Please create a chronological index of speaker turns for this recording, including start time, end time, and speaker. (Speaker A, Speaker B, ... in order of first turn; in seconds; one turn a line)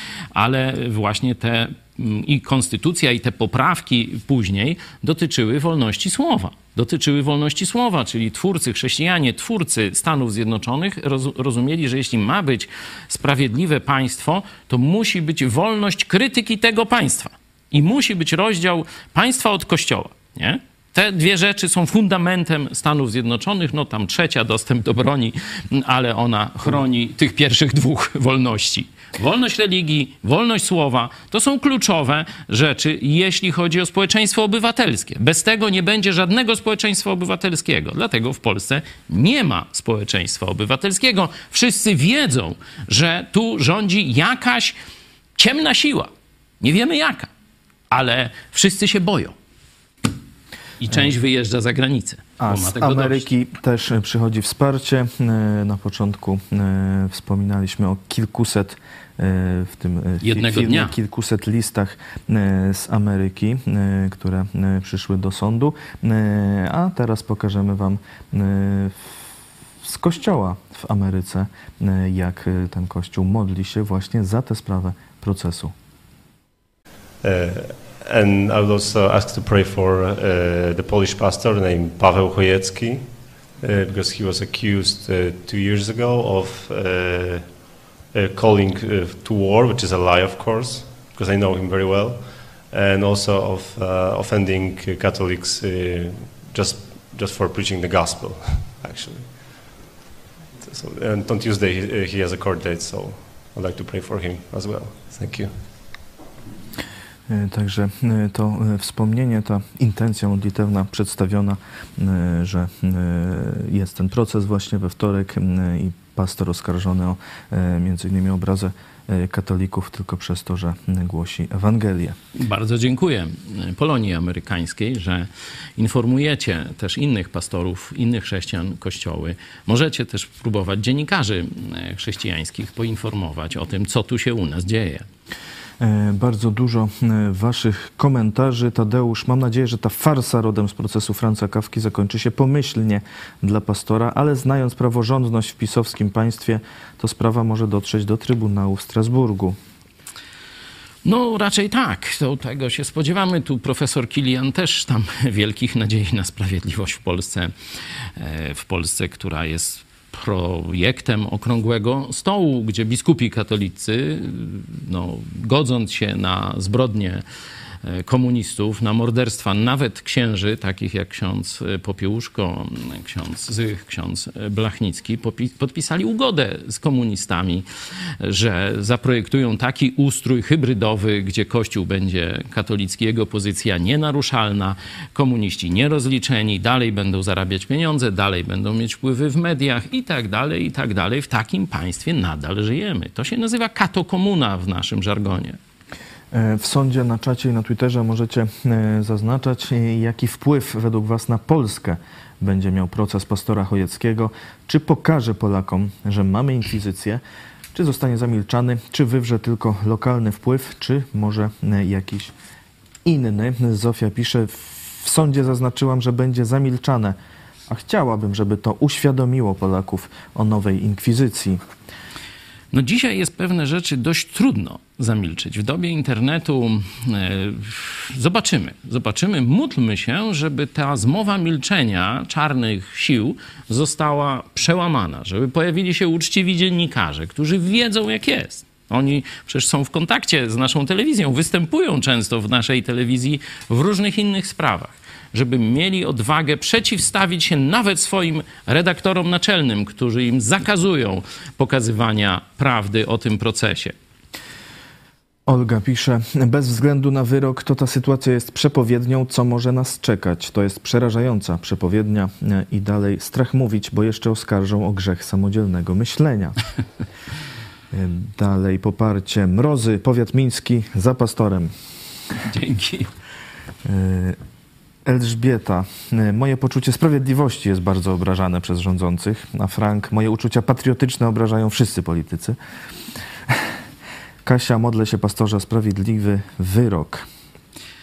Speaker A: 0.3-44.8
Speaker A: 45.4-46.1
Speaker A: 46.6-47.3
Speaker A: 47.9-49.3
Speaker A: 50.8-53.3
Speaker B: 52.4-69.2
Speaker A: 60.2-60.9
Speaker B: 69.8-75.7
Speaker C: 77.2-99.8
Speaker C: 100.6-105.6
Speaker B: 107.3-122.2
Speaker A: 122.3-135.1
Speaker B: 135.8-149.6
Speaker A: 151.0-157.5
Speaker A: 158.2-167.2
Speaker A: 167.8-177.7
Speaker A: 178.2-195.6
Speaker B: 196.3-207.2
Speaker B: 207.7-212.3
Speaker B: 213.0-217.2
Speaker B: 217.7-221.6
Speaker A: 222.7-253.9
Speaker B: 255.5-266.6
Speaker B: 267.9-271.7
Speaker A: 272.4-273.1
Speaker B: 273.8-274.4
Speaker B: 275.1-282.6
Speaker B: 284.4-287.2